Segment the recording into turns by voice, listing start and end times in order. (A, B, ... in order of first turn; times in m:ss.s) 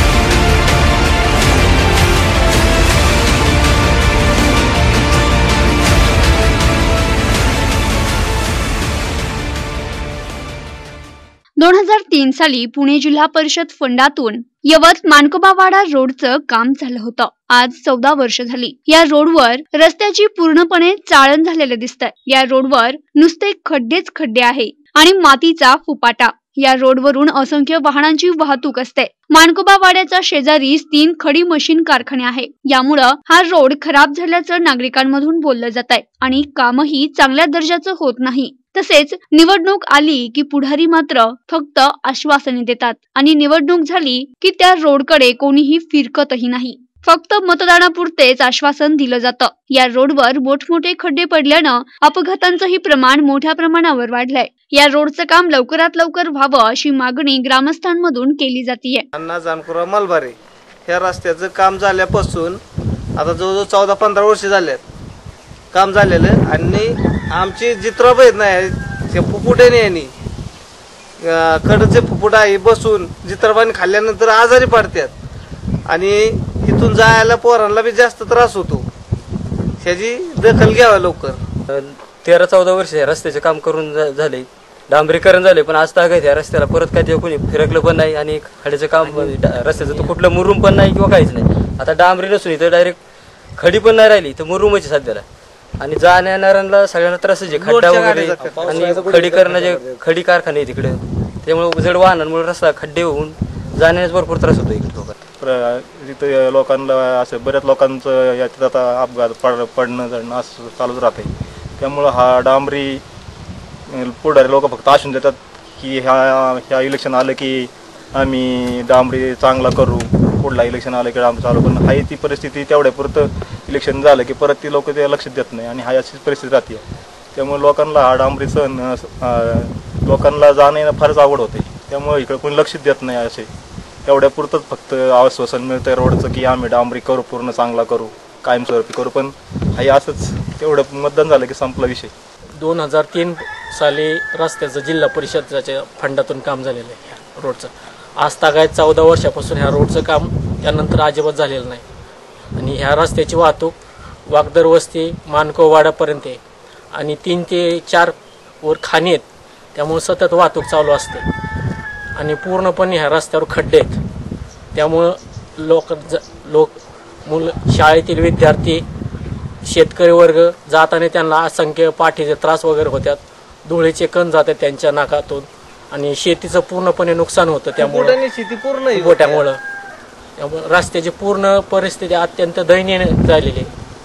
0:11.6-0:59.1 A
0:59.2-1:02.6 B
1:03.2-1:04.8 B
1:05.7-1:10.1 B
1:11.2-1:15.1 B
1:15.9-1:18.9 B
1:19.8-1:21.4 B
1:21.7-1:33.0 C
1:29.0-1:30.1 D
1:33.6-1:35.3 C
1:35.8-1:45.2 C
1:37.5-1:39.2 B
1:38.7-1:39.1 E
1:45.4-1:53.0 E
1:53.9-2:06.8 E
2:07.4-2:13.5 E
2:14.0-2:22.1 E
2:22.6-2:31.8 D
2:32.6-2:33.8 D
2:34.3-2:36.4 D
2:36.9-2:41.2 D
2:42.2-2:44.0 D
2:44.7-2:46.8 D
2:47.3-2:48.8 D
2:49.6-2:58.2 D
2:57.8-2:59.5 B
2:58.9-2:59.6 D
3:00.4-3:03.7 D